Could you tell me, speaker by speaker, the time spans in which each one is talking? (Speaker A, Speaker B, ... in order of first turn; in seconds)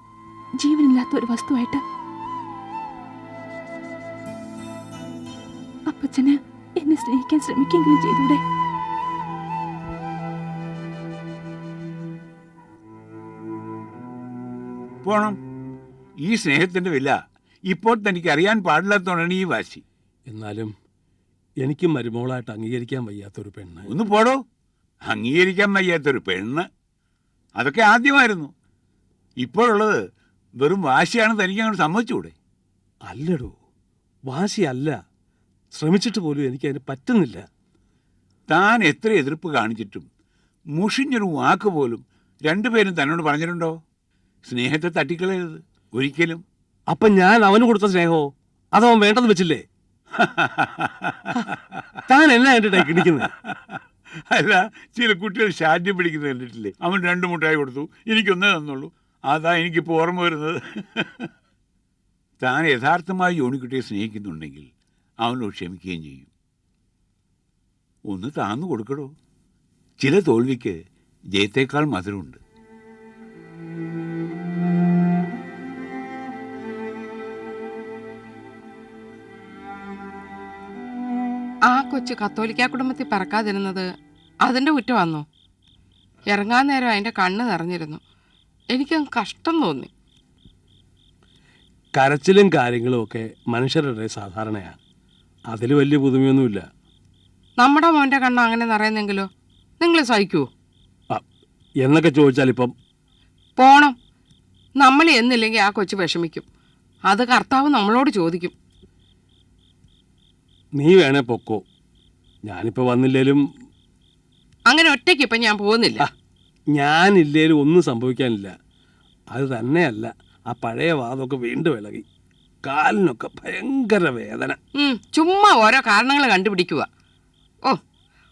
Speaker A: 0.6-1.8, 5.9-8.4
Speaker B: 15.0-15.4, 16.2-17.2, 17.7-19.8, 23.9-24.4, 25.1-26.7, 27.6-28.5, 29.4-30.0, 30.6-32.3, 38.5-40.1, 40.8-43.7, 44.5-46.4, 50.4-50.9, 53.0-53.2, 54.3-61.3, 62.4-64.7, 65.2-66.3, 68.1-69.1, 70.0-70.7, 71.3-72.4
Speaker C: 20.3-20.7, 21.6-23.9, 33.1-33.5, 34.3-34.9, 35.8-37.4, 46.9-49.6, 52.1-53.3, 92.0-94.8, 95.5-96.6, 101.8-102.7, 110.8-111.6, 112.5-113.4, 116.8-118.5, 119.3-122.0, 122.7-124.6
Speaker D: 81.7-83.8, 84.5-85.2, 86.3-88.0, 88.7-89.9, 97.6-99.3, 99.8-100.5, 103.6-103.9, 104.8-106.4, 107.1-108.5, 114.7-116.0, 124.7-126.9